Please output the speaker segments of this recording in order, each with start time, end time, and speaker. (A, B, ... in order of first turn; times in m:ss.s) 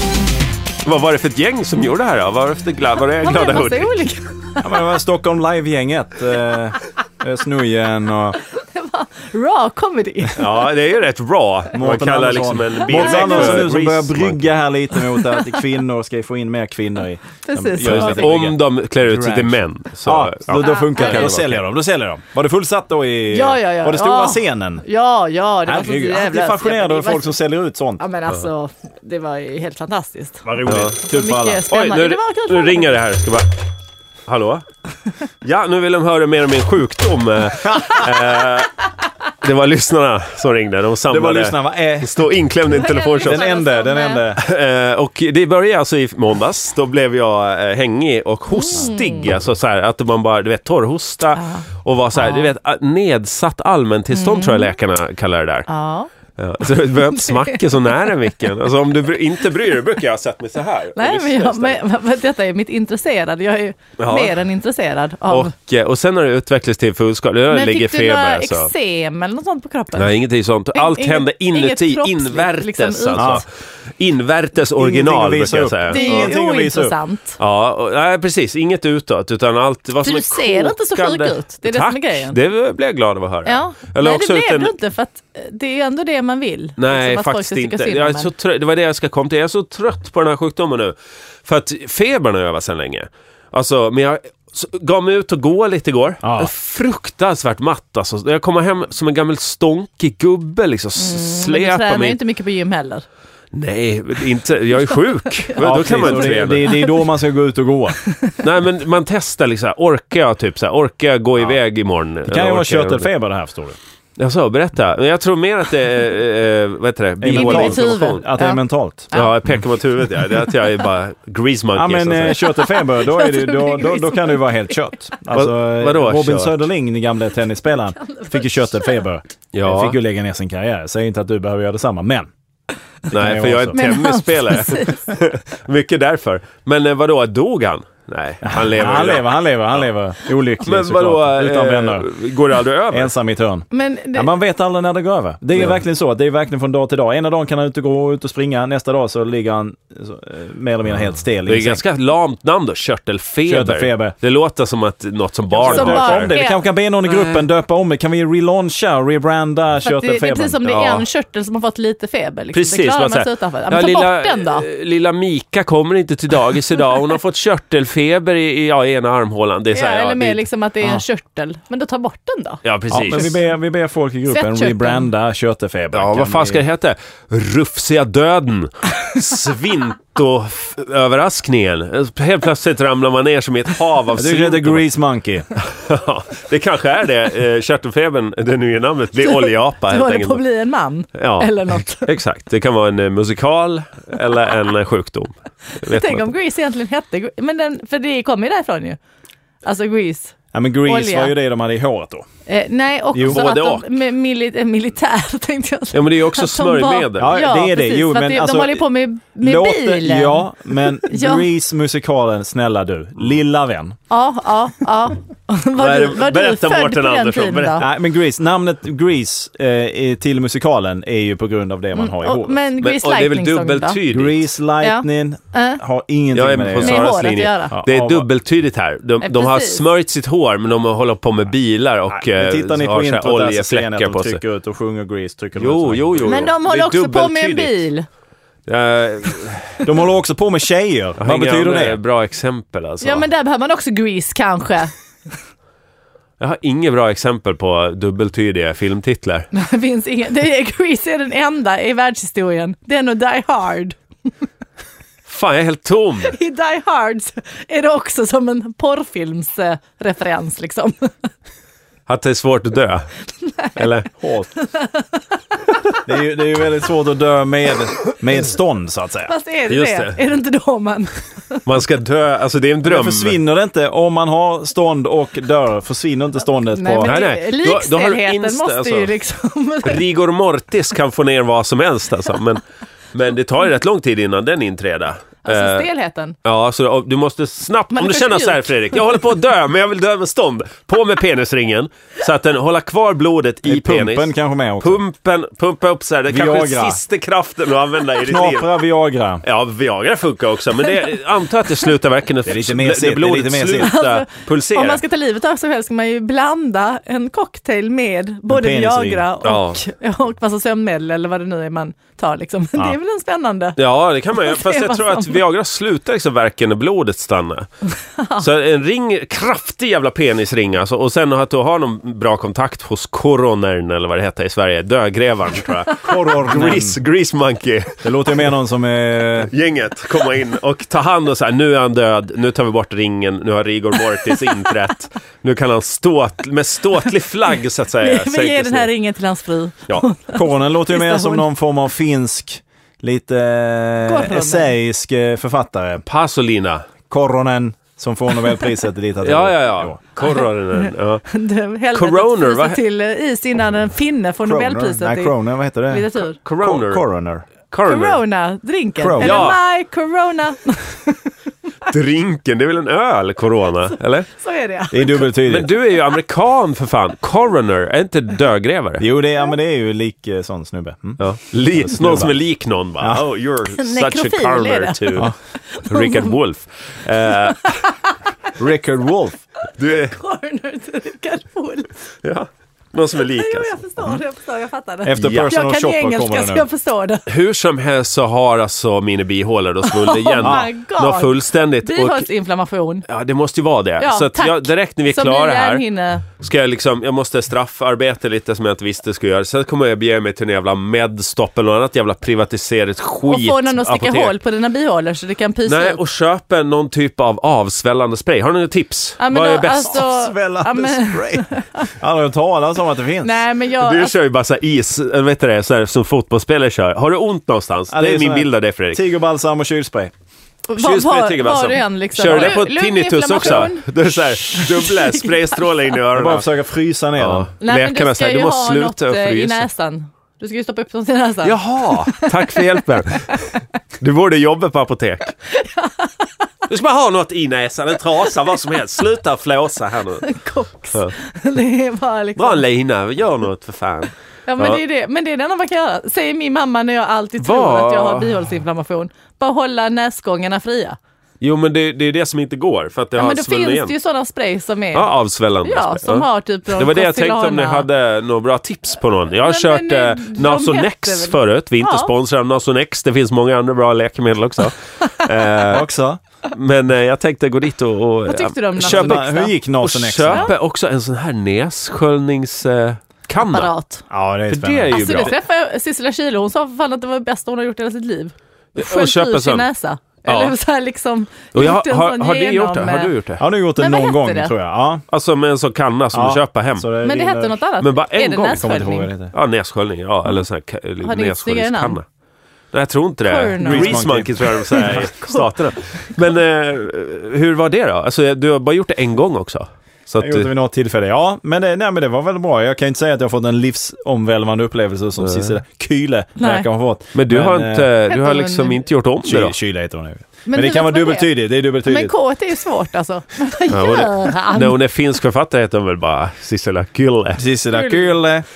0:00.8-0:04.0 A
0:03.2-0:04.7 B
0:04.6-0:08.4 C
0:08.6-0:10.4 B
0:10.4-0:14.5 A
0:11.7-0:24.8 C
0:12.9-0:13.7 B
0:17.4-0:18.4 B
0:17.8-0:21.6 A
0:20.6-0:21.3 B
0:23.3-0:27.3 B
0:25.6-0:28.0 C
0:28.0-0:30.5 B
0:30.4-0:31.6 C
0:30.6-0:31.0 A
0:31.1-0:32.9 B
0:31.7-0:33.6 A
0:34.3-0:34.6 A
0:35.4-0:38.8 A
0:39.4-0:43.5 A
0:41.1-0:42.4 C
0:42.8-0:44.2 B
0:43.2-0:44.4 C
0:44.4-0:55.7 A
0:48.5-0:49.3 B
0:51.4-0:51.6 B
0:52.1-0:52.5 B
0:54.1-0:54.7 B
0:55.7-0:56.1 B
0:56.4-1:01.8 A
0:56.6-0:58.1 B
1:01.0-1:05.5 B
1:04.0-1:04.4 A
1:05.3-1:08.7 A
1:07.5-1:10.2 B
1:10.0-1:13.5 A
1:10.7-1:13.4 B
1:13.2-1:13.4 C
1:14.0-1:16.3 A
1:14.8-1:16.9 C
1:15.9-1:17.4 B
1:17.4-1:24.7 A
1:20.0-1:22.4 B
1:23.4-1:28.3 B
1:26.8-1:42.2 A
1:36.2-1:36.5 C
1:41.0-1:43.0 B
1:43.5-1:46.7 A
1:45.5-1:46.9 B
1:45.6-1:48.0 C
1:48.4-1:53.1 A
1:52.3-1:53.8 C
1:54.2-1:58.2 A
1:57.2-1:59.1 C
1:57.3-1:59.4 B
1:59.1-2:02.4 A
2:01.7-2:12.3 C
2:02.3-2:04.7 B
2:05.3-2:06.6 A
2:07.9-2:09.0 B
2:09.5-2:10.0 A
2:13.1-2:13.9 C
2:13.1-2:19.4 A
2:13.7-2:15.1 B
2:18.4-2:22.1 C
2:20.6-2:23.1 A
2:22.9-2:31.8 C
2:23.7-2:24.3 B
2:31.4-2:36.3 A
2:33.4-2:34.1 C
2:35.6-2:36.6 B
2:35.6-2:40.9 C
2:39.8-2:44.6 B
2:42.5-2:50.4 A
2:49.7-2:52.6 B
2:52.6-2:53.4 A
2:52.9-2:56.6 C
2:54.3-2:55.1 B
2:55.9-3:04.8 A
3:04.2-3:05.5 C
3:05.6-3:10.4 A
3:09.2-3:12.1 B
3:11.1-3:16.3 A
3:15.8-3:19.0 B
3:19.6-3:21.3 B
3:20.5-3:22.2 C
3:22.5-3:31.4 B
3:23.1-3:23.4 C
3:23.2-3:23.9 A
3:25.9-3:27.4 A
3:27.2-3:34.0 C
3:34.1-3:37.9 B
3:35.8-3:37.9 A
3:37.8-3:42.6 C
3:41.9-3:44.0 B
3:42.8-3:44.4 A
3:44.1-3:47.1 C
3:44.8-3:45.8 B
3:46.3-3:54.4 A
3:46.8-3:47.8 B
3:47.7-3:48.3 C
3:49.2-3:49.8 B
3:52.1-3:56.4 C
3:55.6-3:57.8 A
3:56.2-3:58.0 B
3:58.7-3:59.8 A
3:59.8-4:02.0 C
4:01.2-4:03.2 A
4:03.0-4:04.9 B
4:06.4-4:09.5 A
4:09.5-4:14.0 B
4:15.3-4:16.3 A
4:16.3-4:21.1 B
4:22.1-4:23.1 A
4:23.4-4:23.9 B
4:23.8-4:24.1 A
4:24.2-4:24.5 C
4:24.6-4:25.2 B
4:26.0-4:29.3 C
4:29.2-4:31.6 B
4:29.7-4:30.2 A
4:31.6-4:33.4 A
4:32.8-4:37.2 C
4:36.7-4:40.0 B
4:37.0-4:39.1 A
4:39.8-4:42.6 A
4:43.1-4:45.9 A
4:45.4-4:46.3 B
4:46.4-4:58.7 A
4:47.9-4:49.0 B
4:53.6-4:55.0 C
4:56.3-4:57.0 C
4:58.2-4:59.4 C
4:59.4-5:05.0 A
5:02.4-5:04.0 C
5:03.8-5:13.8 B
5:08.5-5:09.2 C
5:09.4-5:09.8 A
5:13.8-5:17.7 A
5:14.3-5:15.4 B
5:18.2-5:18.4 B
5:18.4-5:28.0 A
5:26.0-5:27.0 C
5:28.0-5:29.5 C
5:29.5-5:38.9 A
5:38.0-5:41.4 B
5:40.3-5:46.0 C
5:44.0-5:44.7 B
5:46.1-5:46.8 A
5:47.1-5:50.0 C
5:49.2-5:51.2 A
5:50.2-5:55.3 B
5:51.9-5:52.8 A
5:54.4-5:57.5 C
5:55.9-5:56.4 B
5:56.4-5:57.0 A
5:57.7-5:58.2 A
5:57.8-6:01.3 B
5:59.0-5:59.5 C
5:59.2-5:59.6 A
6:01.9-6:04.3 A
6:03.9-6:05.8 B
6:04.9-6:05.7 C
6:05.4-6:09.0 A
6:09.0-6:12.4 C
6:11.2-6:15.3 A
6:13.0-6:13.3 C
6:13.8-6:16.3 B
6:15.8-6:17.7 A
6:17.2-6:18.1 B
6:18.6-6:19.4 C
6:19.8-6:20.2 A
6:20.0-6:21.9 B
6:22.2-6:24.2 A
6:23.3-6:27.3 B
6:25.0-6:26.7 C
6:25.2-6:25.5 A
6:27.3-6:32.2 A
6:29.9-6:33.0 B
6:33.1-6:44.3 A
6:34.0-6:36.2 B
6:43.2-6:46.0 B
6:45.6-6:50.0 A
6:49.2-6:51.9 B
6:49.9-6:53.4 C
6:53.2-6:54.1 B
6:53.8-6:59.0 A
6:57.9-7:00.1 C
7:00.7-7:05.6 B
7:00.8-7:06.4 A
7:06.1-7:07.5 C
7:07.2-7:09.6 A
7:07.6-7:12.6 B
7:11.4-7:13.4 A
7:13.3-7:13.6 B
7:14.0-7:15.3 A
7:15.5-7:16.3 B
7:16.7-7:20.3 A
7:20.2-7:22.6 B
7:22.4-7:24.8 A
7:24.5-7:31.0 B
7:27.4-7:28.5 A
7:31.4-7:33.9 A
7:33.1-7:35.1 B
7:34.9-7:45.9 A
7:35.6-7:37.9 B
7:39.4-7:42.1 B
7:45.7-7:46.2 C
7:46.5-7:49.3 A
7:48.2-7:49.5 B
7:48.8-7:50.5 C
7:49.8-7:53.7 A
7:50.3-7:50.5 B
7:53.4-7:54.0 B
7:54.1-7:55.3 C
7:54.5-7:55.3 A
7:54.9-8:03.1 B
7:58.7-7:59.6 A
8:00.2-8:00.5 A
8:01.5-8:03.4 A
8:03.4-8:05.0 C
8:03.8-8:04.5 B
8:05.1-8:06.9 A
8:06.1-8:07.6 C
8:07.0-8:09.1 B
8:07.8-8:08.7 A
8:08.6-8:09.3 C
8:09.3-8:12.0 A
8:11.0-8:12.0 B
8:12.7-8:20.5 A
8:13.2-8:16.1 B
8:13.6-8:15.1 C
8:20.2-8:27.9 C
8:25.2-8:25.6 A
8:26.4-8:26.6 B
8:27.1-8:29.5 A
8:28.1-8:28.8 B
8:29.2-8:32.1 C
8:30.4-8:34.8 B
8:33.7-8:37.4 A
8:37.4-8:38.4 C
8:37.7-8:38.1 B